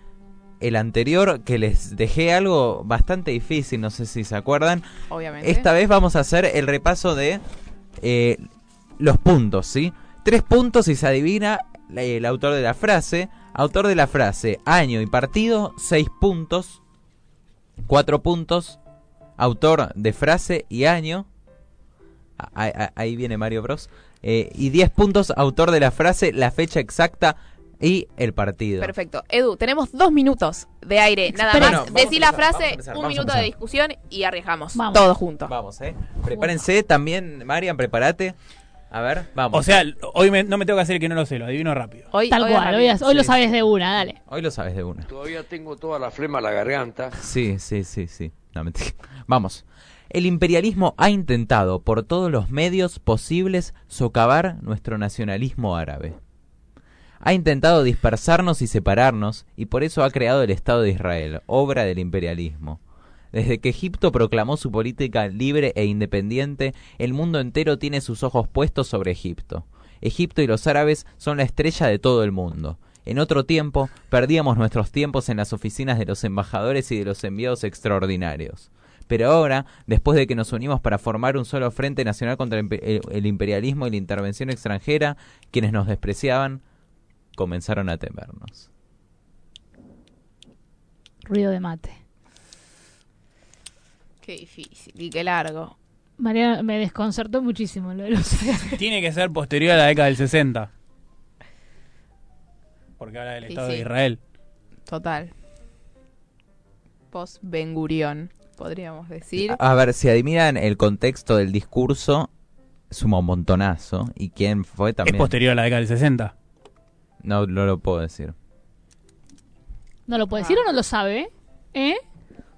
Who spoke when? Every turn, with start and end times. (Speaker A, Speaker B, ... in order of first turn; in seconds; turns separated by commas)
Speaker A: 0.6-4.8, Speaker B: 5.1-5.7, Speaker A: 5.4-7.4, Speaker A: 8.0-8.5, Speaker A: 9.0-16.8, Speaker A: 17.9-18.8, Speaker A: 19.4-21.3, Speaker A: 22.4-28.9, Speaker B: 28.8-35.5, Speaker C: 31.5-31.9, Speaker A: 31.5-33.5, Speaker C: 34.7-35.1, Speaker A: 35.5-38.4, Speaker A: 38.9-39.8, Speaker D: 39.5-42.1, Speaker B: 42.1-43.5, Speaker C: 42.3-44.2, Speaker A: 44.3-45.1, Speaker E: 45.1-47.1, Speaker A: 47.2-56.2, Speaker A: 57.2-62.8, Speaker A: 63.3-86.6, Speaker A: 87.4-88.7, Speaker C: 91.3-92.0, Speaker B: 94.2-95.8, Speaker C: 96.2-98.8, Speaker D: 98.8-100.7, Speaker D: 103.0-104.2, Speaker B: 103.5-103.9, Speaker B: 104.9-105.3, Speaker B: 107.1-109.6, Speaker A: 109.4-112.3, Speaker A: 112.9-115.3, Speaker D: 115.0-116.3, Speaker A: 117.2-118.3, Speaker C: 120.1-122.0, Speaker B: 120.4-120.6